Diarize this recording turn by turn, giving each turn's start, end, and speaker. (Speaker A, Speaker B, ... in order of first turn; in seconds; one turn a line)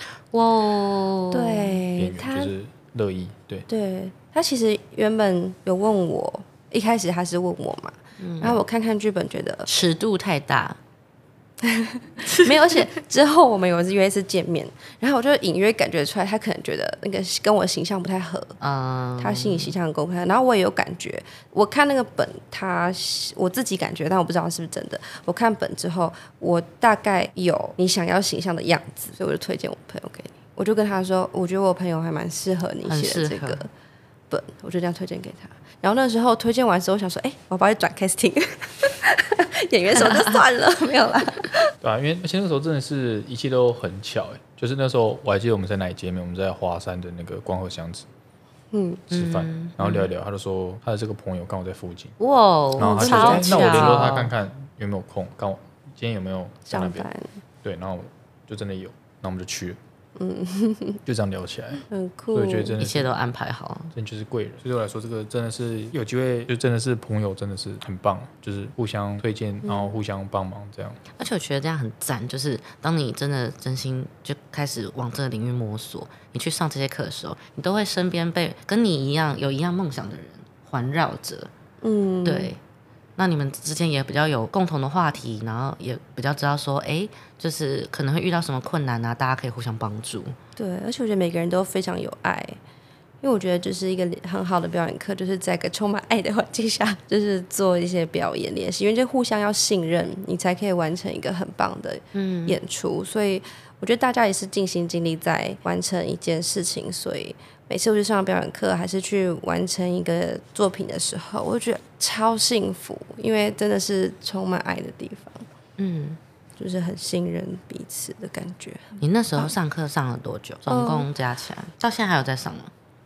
Speaker A: 0.3-1.8
Speaker B: 1.3-2.5
Speaker C: 2.0-3.6
Speaker B: 3.7-9.7
Speaker A: 8.2-8.6
Speaker A: 9.7-10.8
Speaker B: 11.6-18.6
Speaker A: 12.3-12.8
Speaker A: 18.6-19.7
Speaker B: 19.2-33.7
Speaker A: 32.9-33.6
Speaker B: 34.3-41.7
Speaker A: 40.0-40.3
Speaker C: 41.8-48.1
Speaker B: 48.7-49.0
Speaker C: 49.1-52.2
Speaker A: 49.1-50.1
Speaker A: 52.2-54.3
Speaker C: 52.8-57.1
Speaker B: 52.8-54.0
Speaker B: 56.7-57.3
Speaker C: 57.6-59.8
Speaker B: 60.2-61.0
Speaker C: 61.0-63.1
Speaker B: 61.9-62.8
Speaker A: 62.8-63.9
Speaker C: 63.9-71.0
Speaker B: 69.6-69.9
Speaker A: 71.2-81.5
Speaker B: 81.8-82.5
Speaker A: 82.2-82.6
Speaker A: 83.2-90.3
Speaker B: 90.6-92.6
Speaker B: 93.2-115.5
Speaker A: 102.1-102.6
Speaker A: 115.8-116.2
Speaker B: 116.6-119.5
Speaker A: 119.0-122.7
Speaker B: 120.7-121.1